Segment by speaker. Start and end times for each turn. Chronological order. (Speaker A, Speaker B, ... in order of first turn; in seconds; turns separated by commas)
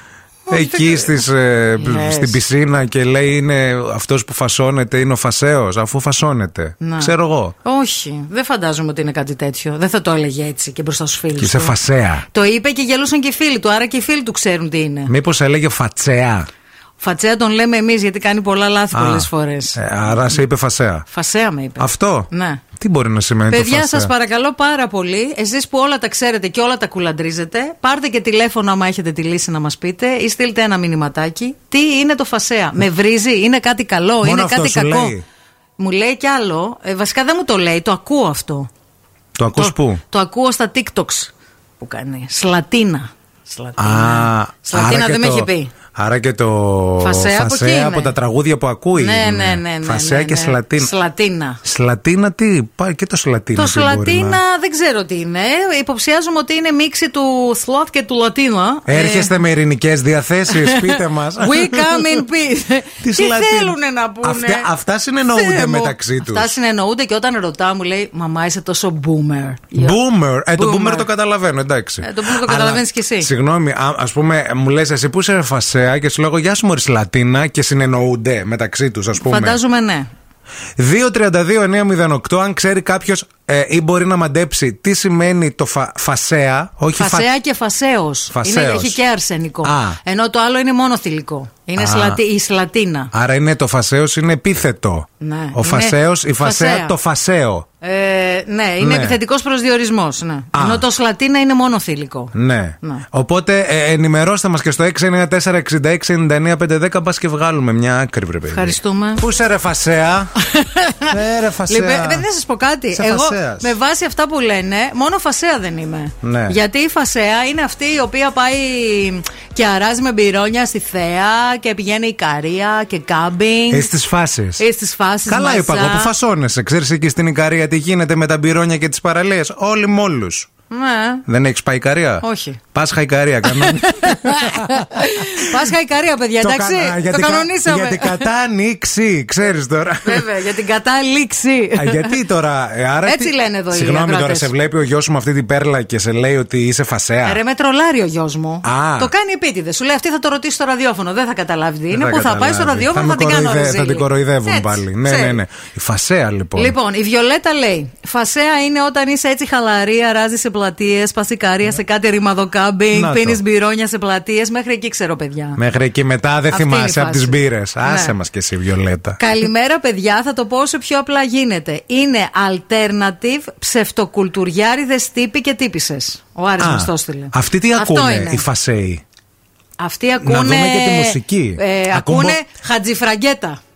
Speaker A: 0.5-1.2, Speaker B: 0.5-7.5, Speaker A: 1.8-2.4, Speaker A: 6.8-11.8, Speaker B: 11.4-12.2, Speaker A: 12.3-15.1, Speaker B: 15.1-16.5, Speaker A: 17.0-20.4, Speaker B: 18.9-21.1, Speaker A: 21.1-22.6, Speaker B: 21.8-24.1, Speaker A: 23.5-35.2, Speaker B: 34.2-35.2, Speaker A: 35.8-38.7, Speaker B: 39.4-40.0, Speaker A: 39.5-45.7, Speaker B: 43.8-50.9, Speaker A: 47.0-48.1, Speaker A: 49.0-51.6, Speaker B: 51.6-54.4, Speaker A: 53.5-59.3, Speaker B: 58.9-62.2, Speaker A: 60.5-64.7, Speaker B: 63.0-66.5, Speaker A: 65.3-70.0, Speaker B: 69.8-79.6, Speaker A: 70.5-71.1, Speaker A: 72.0-73.3, Speaker A: 79.2-80.1, Speaker B: 80.8-87.3, Speaker A: 86.9-93.1, Speaker B: 88.3-89.0, Speaker B: 89.6-90.0, Speaker B: 91.8-92.2, Speaker B: 93.1-97.7, Speaker A: 95.2-96.9, Speaker A: 97.8-103.1, Speaker B: 98.8-99.2, Speaker B: 100.5-100.8, Speaker B: 102.3-110.3, Speaker A: 108.5-109.2, Speaker A: 110.4-123.9, Speaker B: 111.1-112.2, Speaker B: 112.9-113.7, Speaker B: 116.2-116.6, Speaker B: 123.7-124.6, Speaker A: 124.6-126.1, Speaker B: 125.3-130.5, Speaker A: 130.7-131.2, Speaker B: 131.3-135.7, Speaker A: 132.2-132.6, Speaker A: 133.5-138.3, Speaker B: 136.4-140.3, Speaker A: 140.1-142.2, Speaker B: 141.8-147.4, Speaker A: 143.0-144.5, Speaker A: 147.2-155.4, Speaker B: 148.7-149.1, Speaker B: 151.9-156.8, Speaker A: 156.6-165.6, Speaker B: 162.9-163.4, Speaker B: 165.6-169.2, Speaker A: 166.5-168.1, Speaker A: 169.2-178.5, Speaker B: 176.6-179.0, Speaker A: 179.8-183.6, Speaker B: 180.2-182.4